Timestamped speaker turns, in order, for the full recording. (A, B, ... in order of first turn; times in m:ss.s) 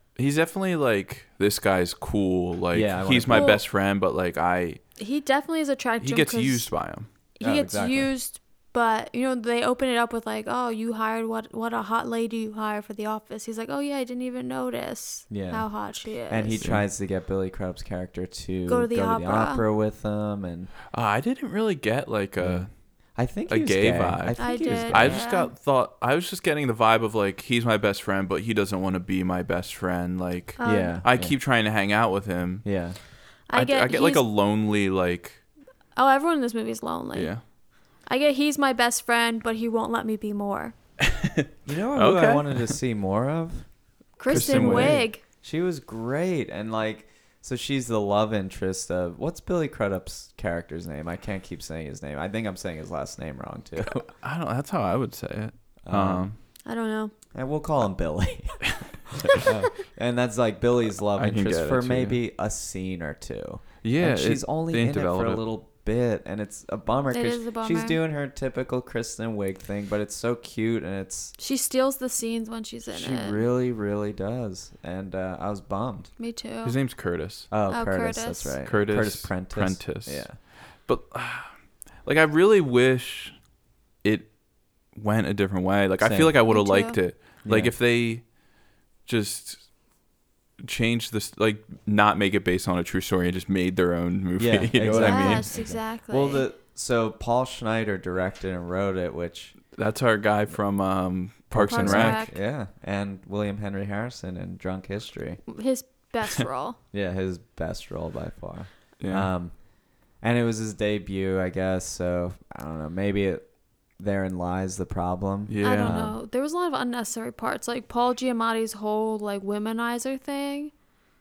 0:00.2-0:04.8 A
0:02.7-0:03.6 B
0:03.3-0:03.6 C
0:05.0-0:06.7 C
0:06.0-0:07.1 A
0:07.4-0:16.7 C
0:07.4-0:08.1 B
0:15.3-0:15.7 B
0:16.3-0:20.7 B
0:18.7-0:19.6 C
0:20.9-0:22.7 A
0:22.4-0:25.3 B
0:23.5-0:32.6 A
0:24.4-0:25.5 C
0:30.6-0:31.0 C
0:30.6-0:31.4 B
0:32.6-0:33.0 B
0:33.5-0:34.2 C
0:33.5-0:35.4 A
0:35.9-0:37.3 C
0:37.1-0:37.4 A
0:38.0-0:40.7 C
0:41.0-0:42.7 A
0:41.6-0:43.7 B
0:44.2-0:45.2 C
0:44.3-0:45.0 A
0:44.3-0:54.0 B
0:53.8-0:56.4 A
0:55.8-0:56.3 B
0:56.6-0:57.1 C
0:57.3-1:11.3 B
0:58.7-0:59.4 A
1:01.1-1:02.2 A
1:03.8-1:05.4 A
1:07.1-1:08.0 C
1:11.4-1:13.4 C
1:12.9-1:16.1 B
1:16.2-1:16.8 C
1:16.6-1:17.5 A
1:17.5-1:20.4 B
1:17.7-1:18.6 C
1:18.6-1:20.3 A
1:20.8-1:21.5 A
1:22.0-1:23.4 A
1:24.0-1:24.3 A
1:24.9-1:28.3 A
1:26.0-1:26.3 B
1:26.5-1:27.0 C
1:27.4-1:27.7 B
1:29.0-1:29.6 A
1:30.6-1:35.5 A
1:34.4-1:39.6 B
1:34.9-1:36.4 C
1:39.7-1:42.2 A
1:41.5-1:45.4 B
1:41.6-1:42.4 C
1:45.5-1:46.8 C
1:46.9-1:49.5 B
1:49.0-1:49.3 A
1:50.2-1:56.2 B
1:55.5-1:56.1 A
1:55.6-2:00.7 C